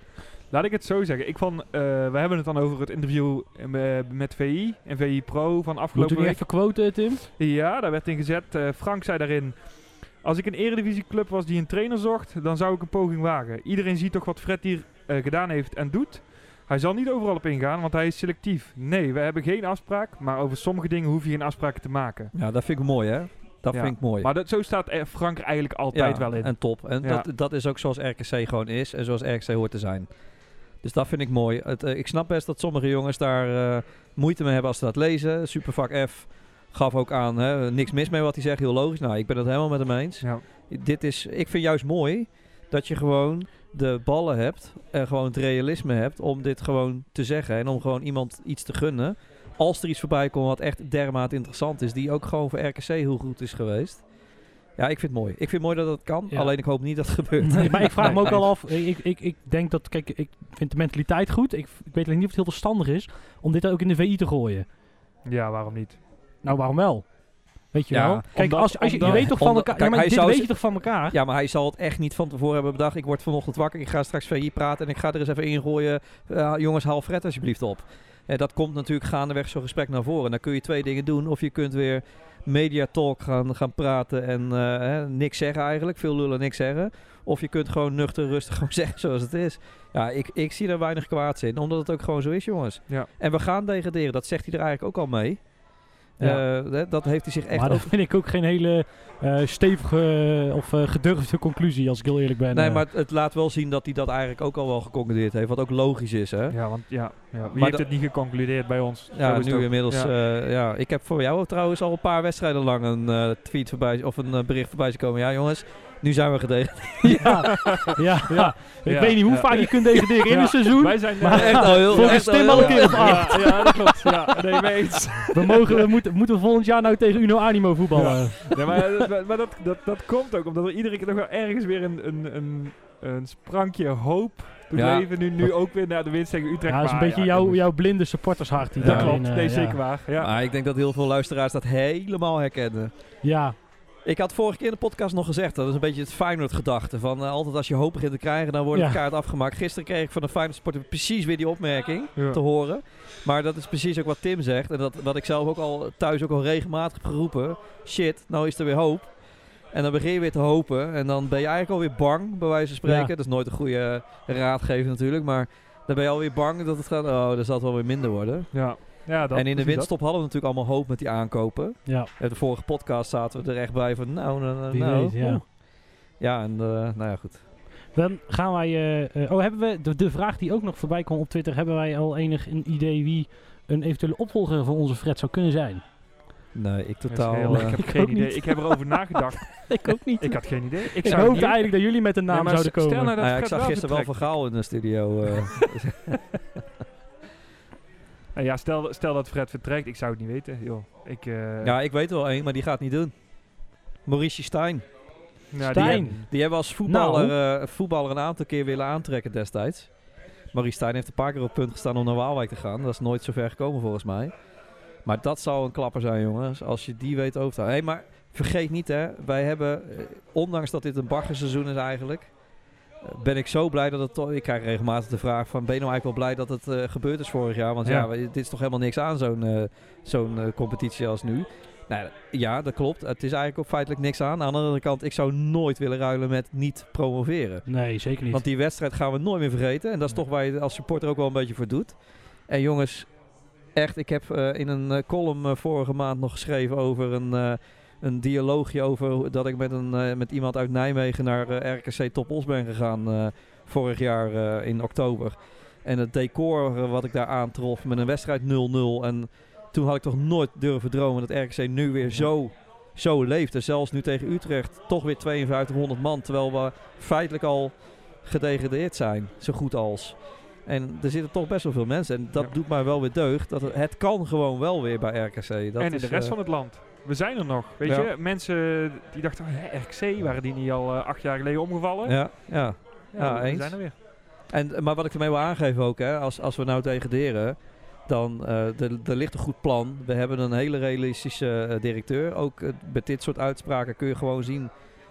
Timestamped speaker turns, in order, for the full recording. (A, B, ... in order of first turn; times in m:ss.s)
0:00.5-0:22.3 A
0:05.9-0:07.2 B
0:22.3-0:24.3 C
0:23.7-0:27.3 A
0:25.9-0:58.4 C
0:56.3-1:04.7 B
0:58.0-0:58.4 A
1:05.2-1:06.0 A
1:06.4-1:11.2 B
1:07.9-1:08.3 C
1:08.3-1:09.3 A
1:09.0-1:37.9 C
1:36.2-1:36.8 B
1:37.5-1:42.8 B
1:42.5-1:47.0 C
1:46.5-1:50.1 A
1:47.5-1:47.9 C
1:49.1-1:57.5 C
1:57.0-2:04.2 B
1:57.9-2:05.8 A
2:01.3-2:03.7 C
2:05.3-2:08.8 B
2:07.9-2:17.7 A
2:14.7-2:15.5 C
2:16.7-2:19.8 B
2:18.8-2:20.3 A
2:18.8-2:19.2 C
2:20.2-2:23.2 C
2:23.2-2:23.6 B
2:24.0-2:55.6 C
2:28.7-2:29.0 B
2:42.8-2:43.1 B
2:48.5-2:49.9 A
2:54.7-2:55.4 B
2:56.2-2:57.4 C
2:57.9-3:05.8 B
3:06.5-3:07.8 C
3:07.1-3:14.3 A
3:07.5-3:13.1 B
3:11.0-3:11.4 C
3:13.2-3:16.3 C
3:18.3-3:21.7 A
3:21.6-3:24.9 C
3:25.5-3:26.3 A
3:25.6-3:27.3 B
3:25.7-3:34.3 C
3:35.0-3:42.3 C
3:43.0-4:36.4 C
3:57.6-3:58.4 B
4:35.8-4:43.9 A
4:37.8-4:38.1 C
4:42.0-4:54.7 C